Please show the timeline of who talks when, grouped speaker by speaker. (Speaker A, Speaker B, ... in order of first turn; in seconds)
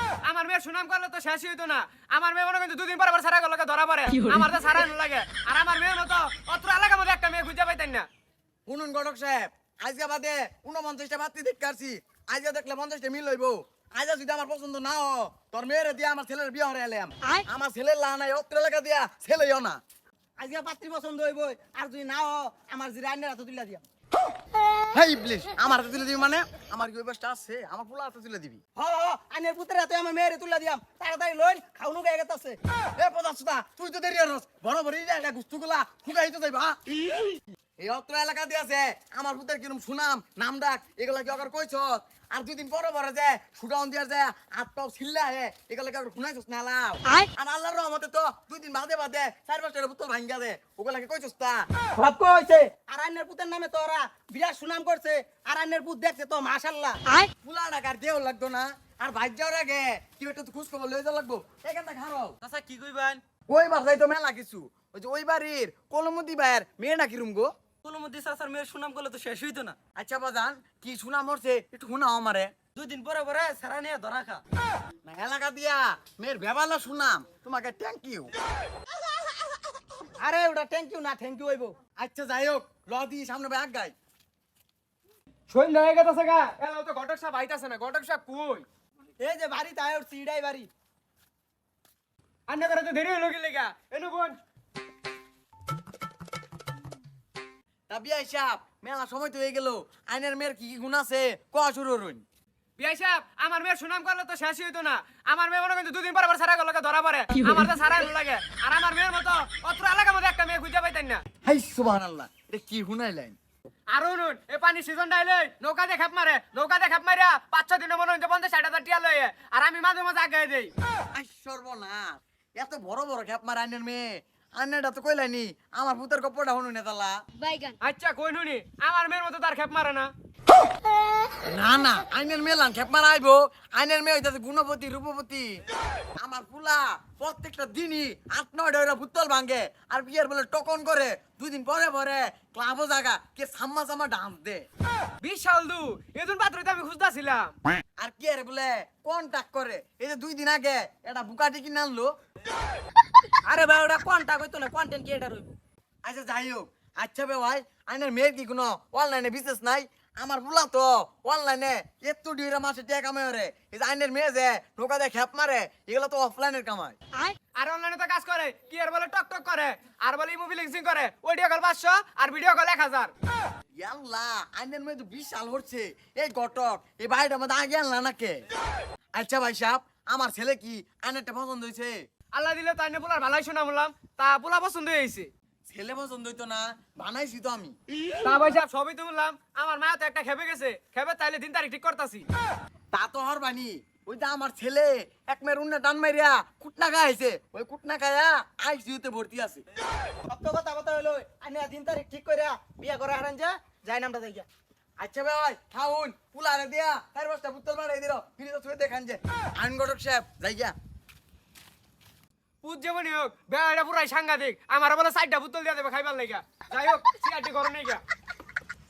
Speaker A: 0.2-8.1, 85.5-88.7, 92.5-94.3, 102.8-111.2, 113.9-120.7, 127.8-130.1, 145.2-147.5, 167.6-173.1, 182.3-185.3, 188.2-192.2, 212.6-218.0
Speaker B: 8.7-19.8, 24.9-28.6, 33.0-36.8, 37.8-51.6, 57.4-62.3, 63.5-67.5, 70.0-72.5, 75.0-78.3, 82.0-83.9, 97.9-102.2, 111.5-113.3, 121.1-127.2, 131.5-135.6, 136.2-144.6, 148.0-152.1, 156.0-166.9, 173.8-178.4, 179.2-181.9, 185.7-187.8, 192.9-199.6, 205.0-210.7
Speaker C: 20.4-23.8, 28.8-32.6, 52.0-57.0, 62.8-63.2, 67.8-69.8, 72.8-74.4, 80.2-81.8, 89.2-90.7, 153.4-155.5, 200.3-204.5